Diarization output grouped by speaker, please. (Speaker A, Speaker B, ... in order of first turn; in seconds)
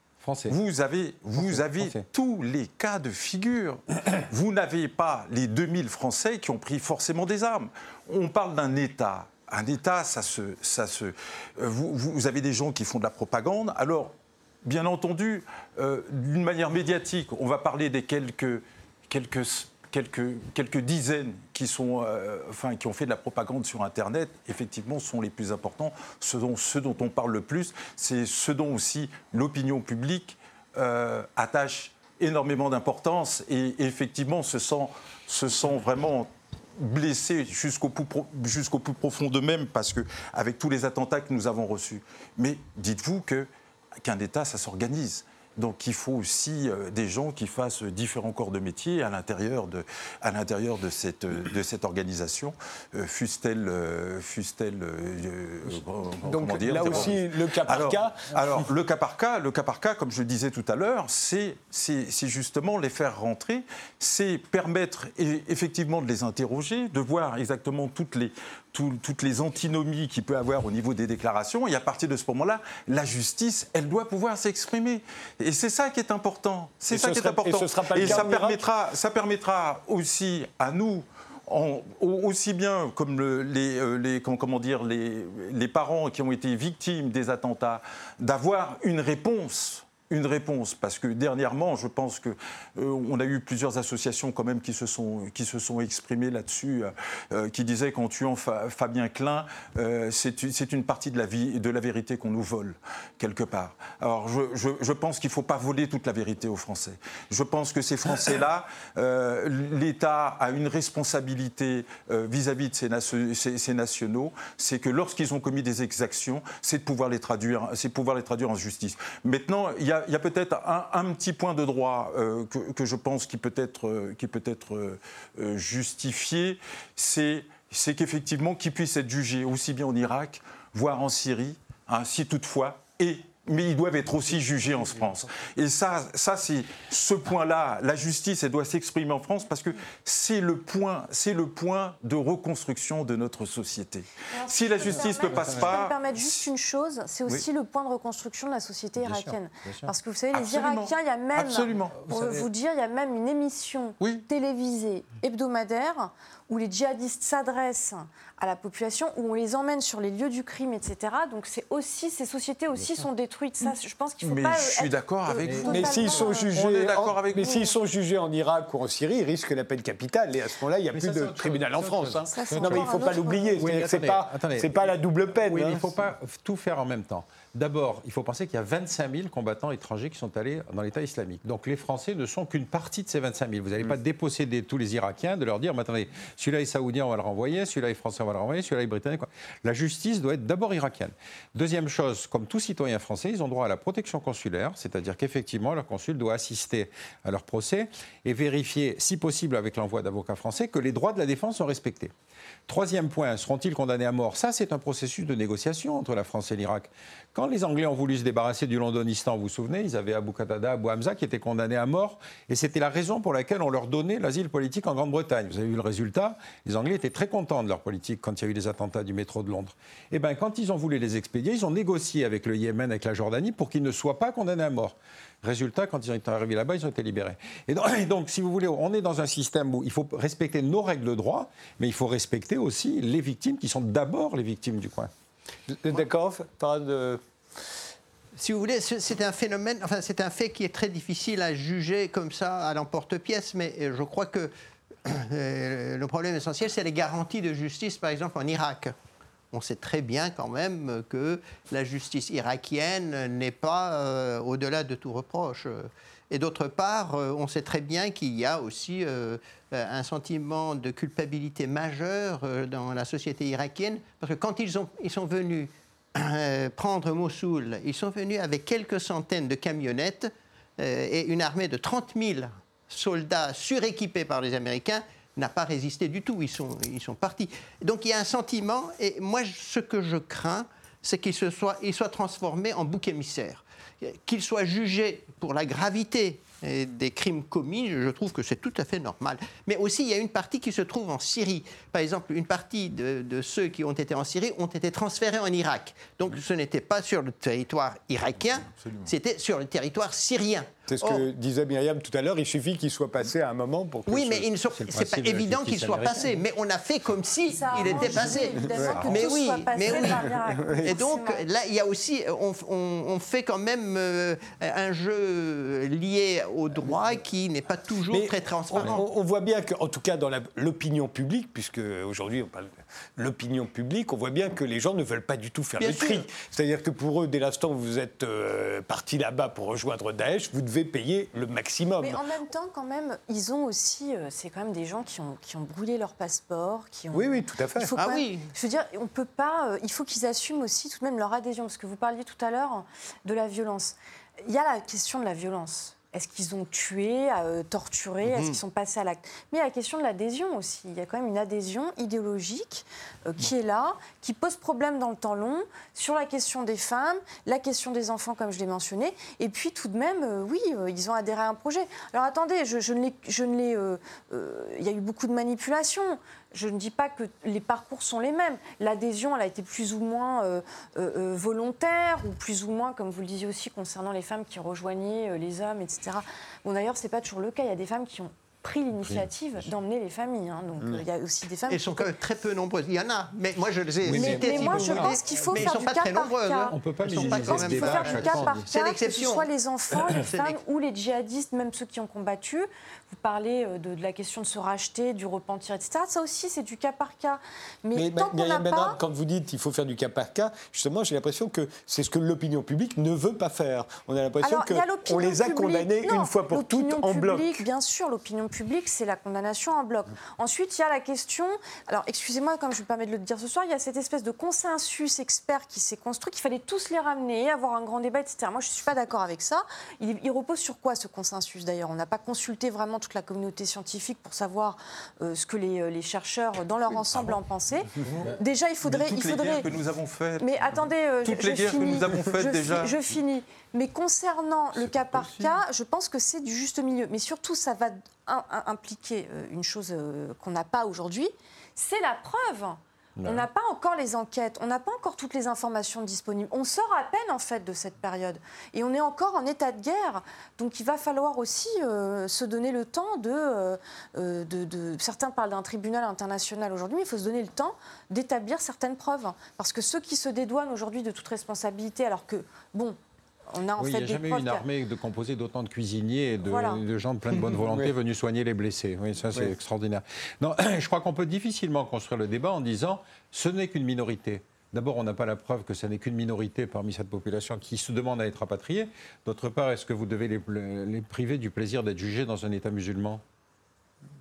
Speaker A: 0.2-0.6, 1.4-2.0, 144.9-145.7, 149.0-149.9, 152.0-152.5, 165.4-165.8, 170.9-202.1, 202.7-235.1, 304.8-306.4, 384.1-385.7, 386.7-388.6, 443.2-443.5, 463.8-483.2
Speaker B: 0.5-14.1, 14.6-43.5, 44.0-146.5, 150.3-152.0, 154.0-154.2, 164.2-167.7, 298.7-299.1, 308.8-309.4, 427.0-427.4, 428.0-433.0, 434.8-435.5
Speaker C: 56.2-58.2, 76.9-78.6, 165.7-175.8, 235.7-237.2, 300.9-304.5, 318.1-332.2, 337.1-337.9, 384.1-384.7, 397.9-407.7, 467.5-467.9
Speaker D: 144.3-166.6, 172.3-173.5, 307.4-311.5, 332.0-382.1, 384.1-399.0, 404.4-429.7, 430.4-463.0, 463.5-464.6, 466.4-466.8
Speaker E: 238.4-244.5, 245.0-248.9, 249.5-301.2, 304.1-319.1, 325.8-326.3, 337.9-338.5, 348.2-348.6, 381.7-389.5, 390.1-390.6